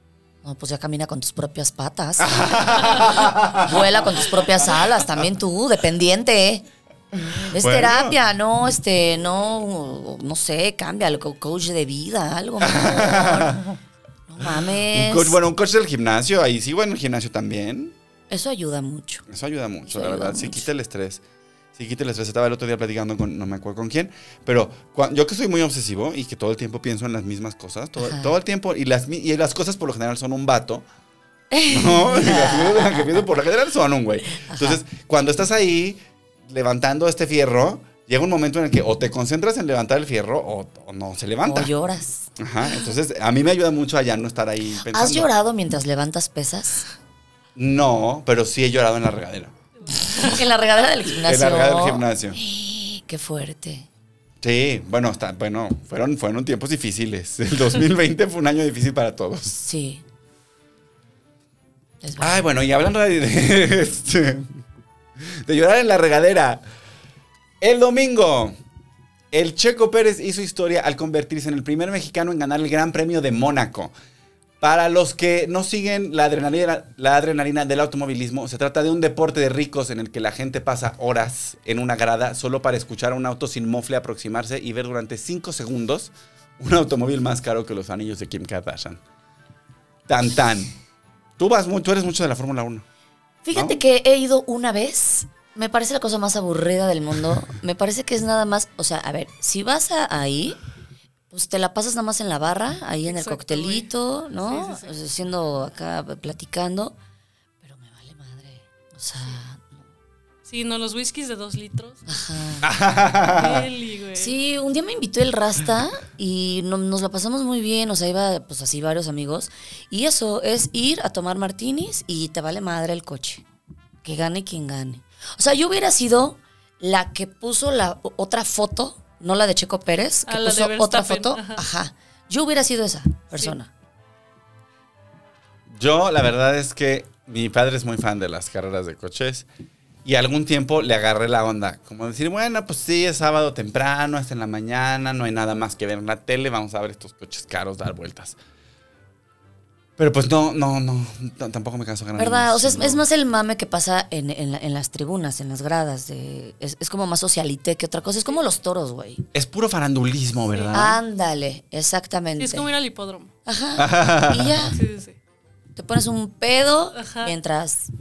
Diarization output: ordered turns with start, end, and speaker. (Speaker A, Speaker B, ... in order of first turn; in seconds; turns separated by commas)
Speaker A: 0.4-6.6, Speaker B: 2.2-4.2, Speaker B: 7.2-8.2, Speaker A: 7.5-13.7, Speaker B: 12.6-13.7, Speaker A: 14.3-15.4, Speaker B: 14.4-17.9, Speaker A: 18.3-19.2, Speaker B: 19.3-21.2, Speaker A: 19.9-20.7, Speaker B: 21.7-30.8, Speaker A: 28.0-28.3, Speaker A: 31.5-33.1, Speaker B: 31.7-41.7, Speaker A: 34.4-34.8, Speaker A: 41.4-42.3, Speaker B: 42.4-45.3, Speaker A: 44.8-46.9, Speaker B: 47.5-49.5, Speaker C: 49.8-50.5, Speaker A: 50.1-53.9, Speaker B: 51.2-52.4, Speaker B: 54.4-59.6, Speaker A: 59.6-60.0, Speaker A: 62.0-62.4, Speaker B: 62.2-64.6, Speaker B: 65.2-66.6, Speaker B: 67.6-68.5, Speaker B: 69.3-73.9, Speaker B: 74.6-89.0, Speaker B: 90.1-90.8, Speaker B: 91.4-92.8, Speaker A: 93.4-100.6, Speaker B: 93.5-93.8, Speaker A: 101.3-106.9, Speaker C: 103.0-104.9, Speaker A: 107.6-109.8, Speaker C: 110.4-112.2, Speaker A: 112.1-112.7, Speaker B: 112.6-113.7, Speaker C: 113.3-114.3, Speaker A: 114.2-123.4, Speaker A: 124.0-133.7, Speaker C: 130.3-131.6, Speaker B: 135.7-139.5, Speaker B: 140.0-148.4, Speaker B: 150.0-153.0, Speaker A: 152.2-159.2, Speaker B: 159.3-161.0, Speaker C: 160.5-160.8, Speaker A: 160.7-162.7, Speaker C: 162.4-163.3, Speaker A: 163.4-164.8, Speaker B: 163.8-164.7, Speaker C: 164.8-165.2, Speaker A: 165.8-167.9, Speaker C: 166.9-167.3